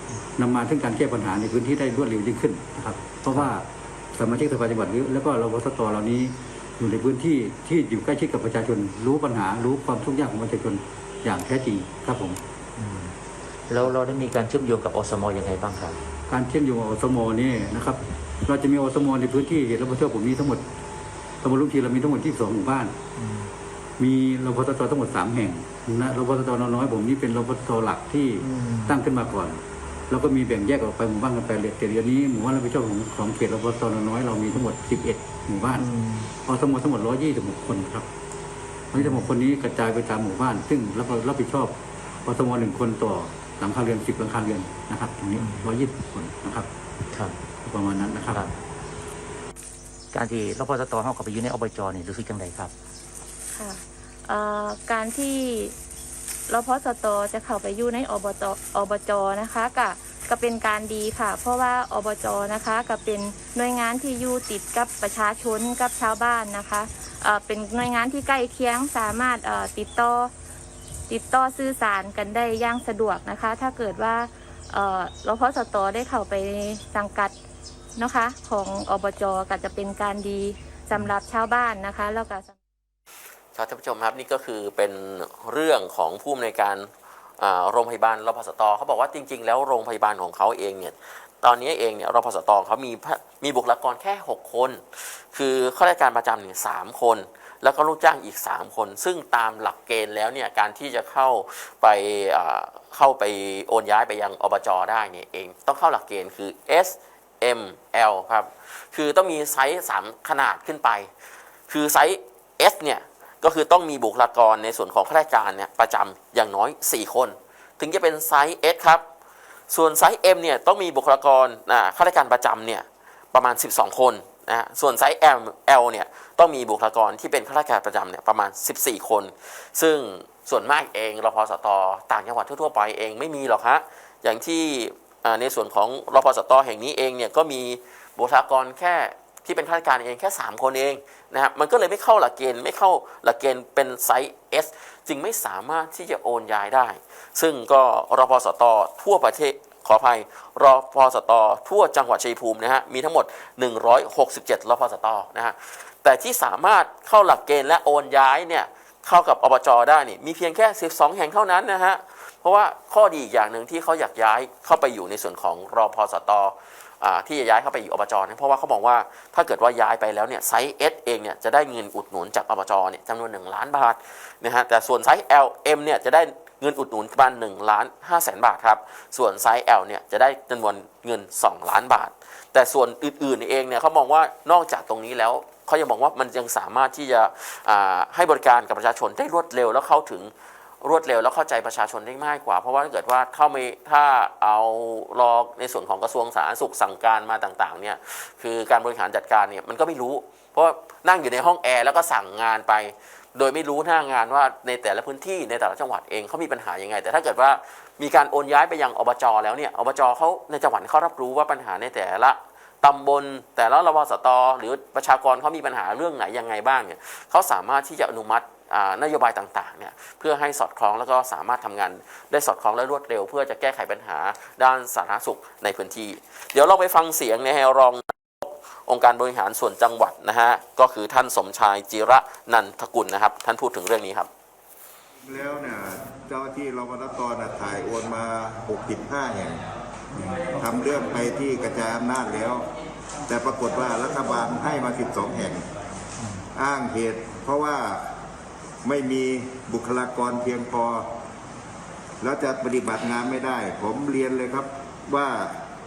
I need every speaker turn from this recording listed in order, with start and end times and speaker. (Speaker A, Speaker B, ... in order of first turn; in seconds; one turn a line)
Speaker A: 0.4-12.4
Speaker B: 12.8-13.1
Speaker B: 13.7-16.0
Speaker A: 16.3-20.6
Speaker A: 21.4-22.9
Speaker B: 23.2-23.5
Speaker A: 24.0-35.9
Speaker B: 28.4-28.9
Speaker B: 35.7-36.3
Speaker A: 36.5-38.1
Speaker A: 38.9-41.7
Speaker A: 42.2-46.7
Speaker B: 45.4-45.6
Speaker A: 47.6-48.5
Speaker B: 50.1-52.7
Speaker C: 53.5-55.8
Speaker C: 56.5-70.3
Speaker C: 71.1-77.3
Speaker C: 78.0-82.5
Speaker D: 83.5-86.9
Speaker D: 87.4-94.8
Speaker D: 95.3-111.1
Speaker D: 111.7-119.0
Speaker D: 119.7-234.3
Speaker E: 235.2-239.6
Speaker B: 240.2-240.5
Speaker E: 240.6-242.7
Speaker E: 243.3-245.7
Speaker E: 246.5-248.1
Speaker E: 248.8-251.1
Speaker E: 252.2-255.6